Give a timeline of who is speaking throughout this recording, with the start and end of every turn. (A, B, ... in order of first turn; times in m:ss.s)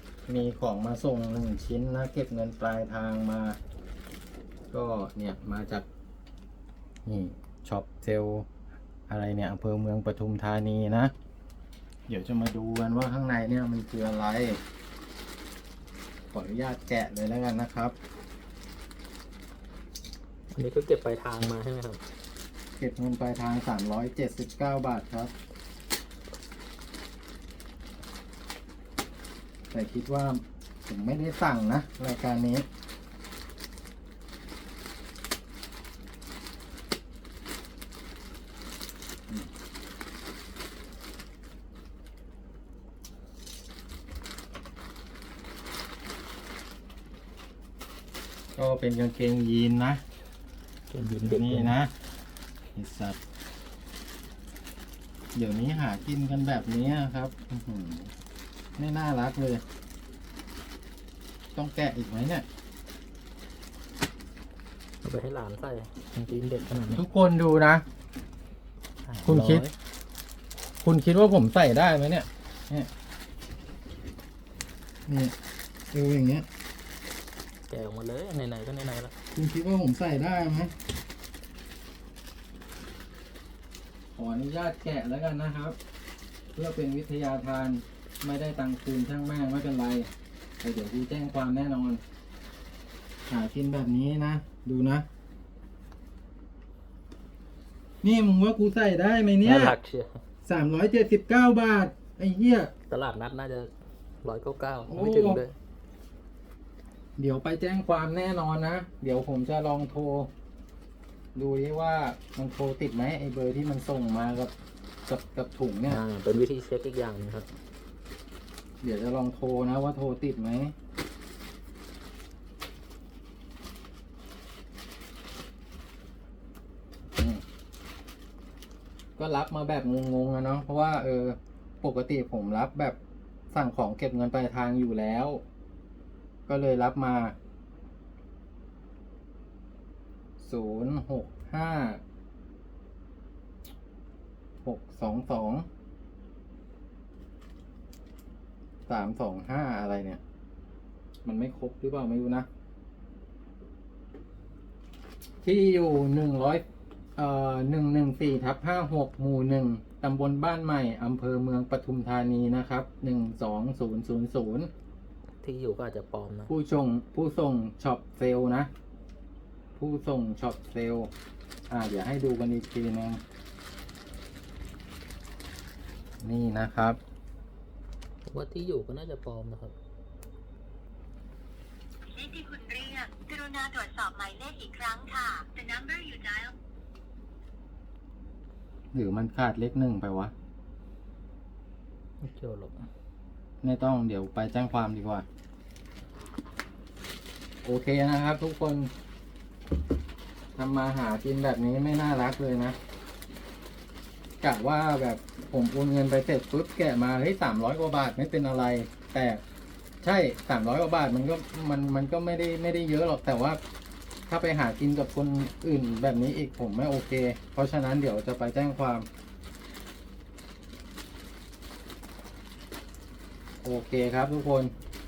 0:00.3-0:03.6 A
0:04.7-0:05.8 A
0:07.0-0:08.5 A
0:09.1-0:11.1 A
0:12.1-0:14.6 A
0:16.3-0:17.9 A
0:20.5-0:22.0 B
0:22.8-0:25.3 A
0:29.7-0:32.6 A
0:48.6-0:50.0 A
0:50.9-0:51.8 B
0:51.3-0:51.9 A
0:52.7-0:53.2 A
0:55.3-0:58.1 A
0:58.8-0:59.6 A
1:01.5-1:02.4 A
1:05.0-1:07.0 B
1:06.9-1:07.8 A
1:09.0-1:09.7 B
1:09.2-1:09.6 A
1:10.8-1:12.9 A
1:15.1-1:15.3 A
1:15.9-1:16.4 A
1:17.7-1:19.1 B
1:19.3-1:20.7 A
1:24.1-1:25.8 A
1:26.5-1:30.1 A
1:30.6-1:32.0 A
1:33.3-1:35.0 A
1:38.0-1:39.8 A
1:39.4-1:40.2 B
1:40.4-1:42.7 A
1:42.9-1:45.6 B
1:44.9-1:45.4 A
1:47.2-1:50.3 A
1:51.3-1:54.5 A
1:55.0-1:56.0 A
1:55.9-1:57.5 B
1:58.8-2:00.7 A
2:07.2-2:07.4 A
2:09.2-2:13.0 A
2:13.5-2:15.4 A
2:16.5-2:17.4 A
2:20.4-2:22.0 A
2:24.6-2:25.6 A
2:28.9-2:30.2 A
2:31.2-2:32.5 A
2:35.4-2:36.6 A
2:37.2-2:44.7 A
2:45.4-2:46.5 B
2:46.5-2:48.7 A
2:49.8-2:51.1 A
2:51.7-2:53.2 A
2:56.2-2:57.0 A
2:58.2-2:59.7 B
3:02.1-3:06.5 C
3:08.9-3:10.3 A
3:12.2-3:12.9 B
3:13.6-3:15.2 A
3:17.6-3:18.9 A
3:20.6-3:22.8 A
3:24.4-3:29.4 A
3:30.0-3:33.6 A
3:34.3-3:39.1 A
3:43.6-3:44.7 A